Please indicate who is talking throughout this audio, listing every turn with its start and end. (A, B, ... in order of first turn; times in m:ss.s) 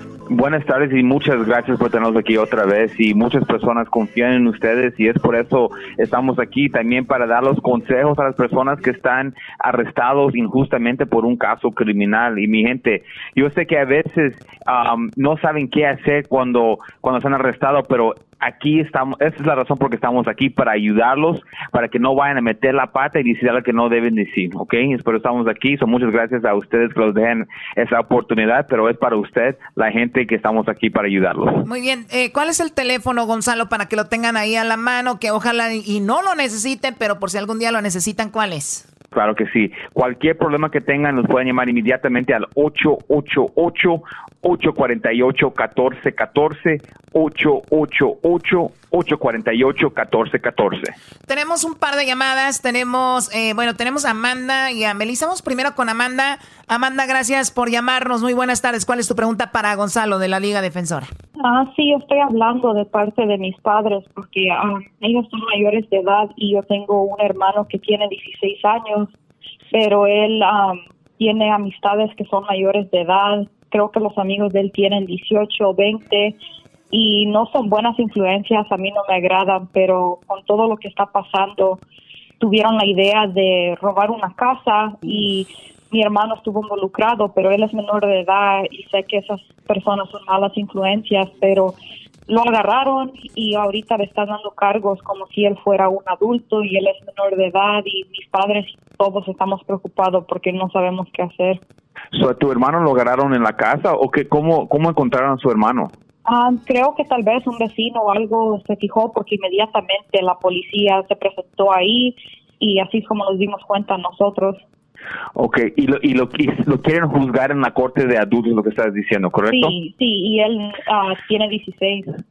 0:00.3-0:31.7 A
0:31.6-0:38.8 B
0:39.1-0:51.0 A
0:51.3-1:01.1 B
1:01.4-1:09.1 C
1:09.7-1:16.4 C
1:16.9-1:21.8 C
1:22.4-1:31.8 C
1:32.3-1:41.6 C
1:42.1-1:45.9 A
1:46.3-1:54.6 C
1:55.4-1:59.8 A
1:59.5-2:02.2 C